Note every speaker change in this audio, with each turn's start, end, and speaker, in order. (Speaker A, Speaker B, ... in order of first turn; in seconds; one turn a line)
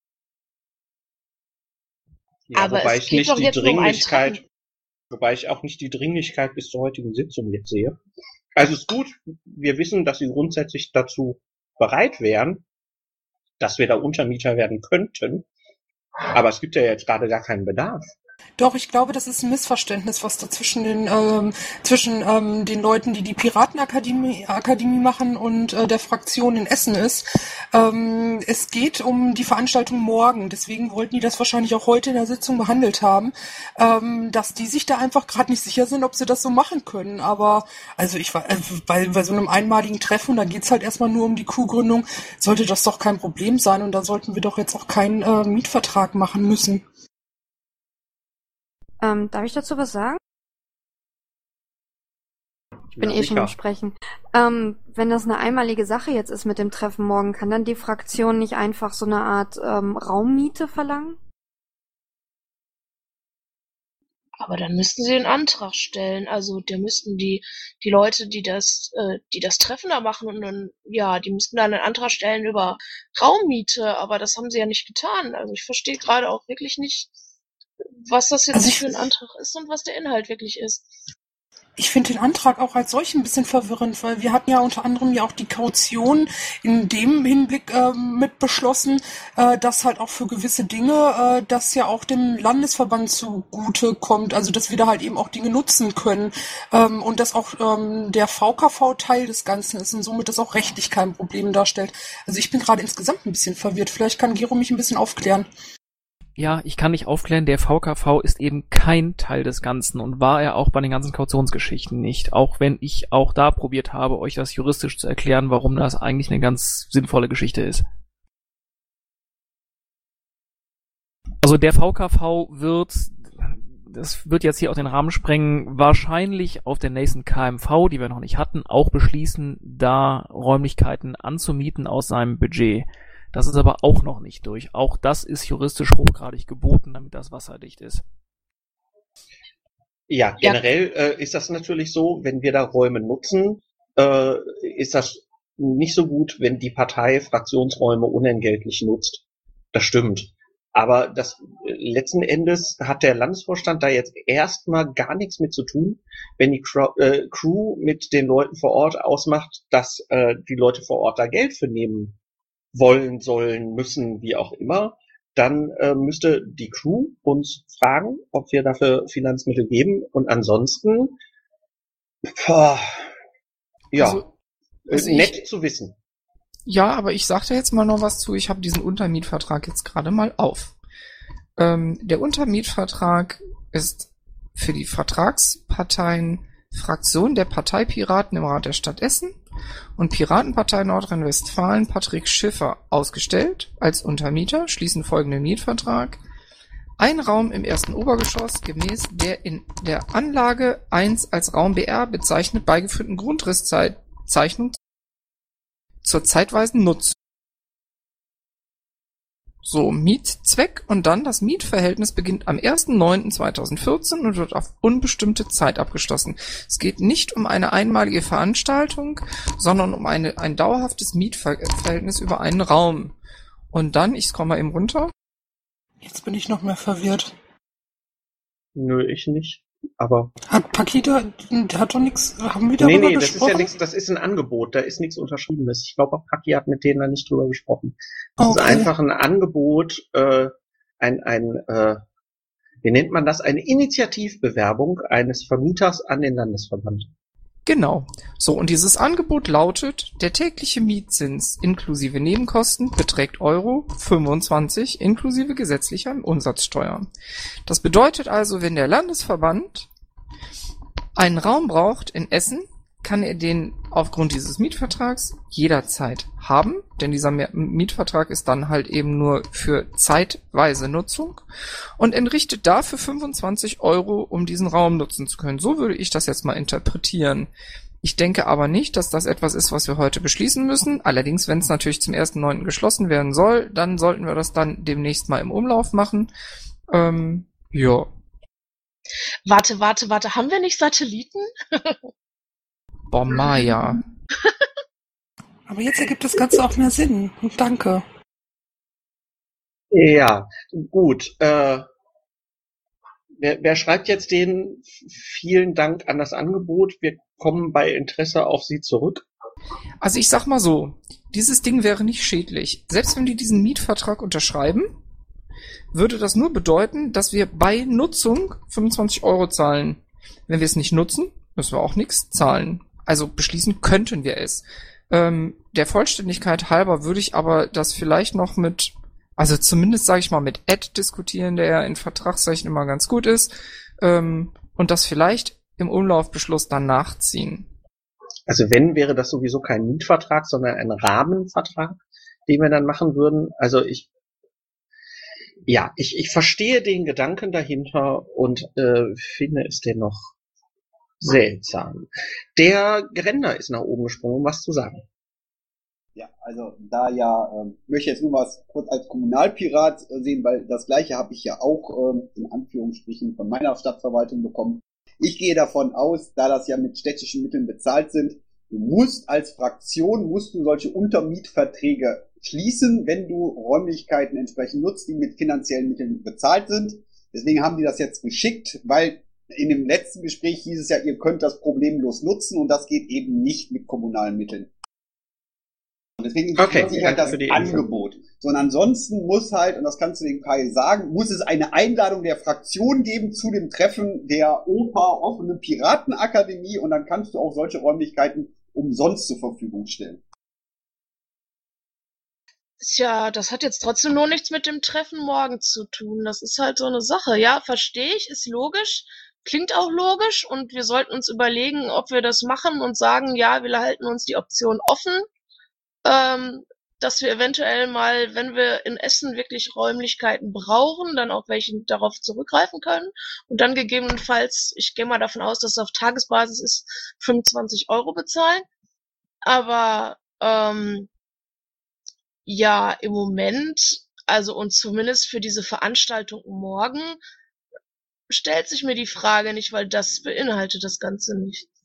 Speaker A: 2.5-4.4
Speaker B: 2.5-4.4
Speaker A: 5.1-8.0
Speaker A: 8.6-12.6
Speaker A: 13.6-15.4
Speaker A: 16.3-18.0
Speaker C: 18.6-46.8
Speaker D: 49.0-50.2
Speaker A: 53.0-53.5
Speaker D: 53.0-61.2
Speaker B: 64.4-77.1
Speaker B: 78.1-80.9
Speaker C: 78.5-79.0
Speaker C: 81.8-105.5
Speaker E: 106.4-117.8
Speaker E: 121.4-138.0
Speaker A: 140.1-149.2
Speaker B: 140.4-140.7
Speaker A: 149.7-162.2
Speaker A: 162.7-171.1
Speaker A: 172.3-173.1
Speaker A: 173.9-174.2
Speaker F: 174.0-174.3
Speaker A: 174.9-175.9
Speaker F: 174.9-175.3
Speaker F: 176.7-180.8
Speaker F: 181.6-189.4
Speaker F: 190.0-196.2
Speaker F: 197.0-204.8
Speaker F: 206.0-207.2
Speaker F: 209.6-223.2
Speaker F: 223.7-225.1
Speaker C: 226.0-227.3
Speaker A: 228.8-230.3
Speaker C: 230.5-233.7
Speaker A: 232.8-242.0
Speaker C: 238.4-238.9
Speaker A: 242.8-247.1
Speaker F: 247.7-257.1
Speaker F: 257.7-259.9
Speaker F: 261.2-271.4
Speaker F: 272.0-277.5
Speaker F: 278.0-286.3
Speaker F: 286.9-288.1
Speaker B: 289.5-292.0
Speaker F: 293.1-294.0
Speaker C: 295.7-298.0
Speaker A: 299.9-301.9
Speaker A: 303.4-309.3
Speaker F: 310.0-314.9
Speaker F: 315.9-337.7
Speaker A: 338.5-344.1
Speaker A: 345.7-350.3
Speaker A: 351.2-355.0
Speaker G: 356.2-384.7
Speaker G: 386.2-400.2
Speaker A: 386.6-387.8
Speaker B: 402.8-415.3
Speaker B: 416.1-428.7
Speaker B: 429.5-431.1
Speaker B: 432.5-437.2
Speaker B: 438.3-441.7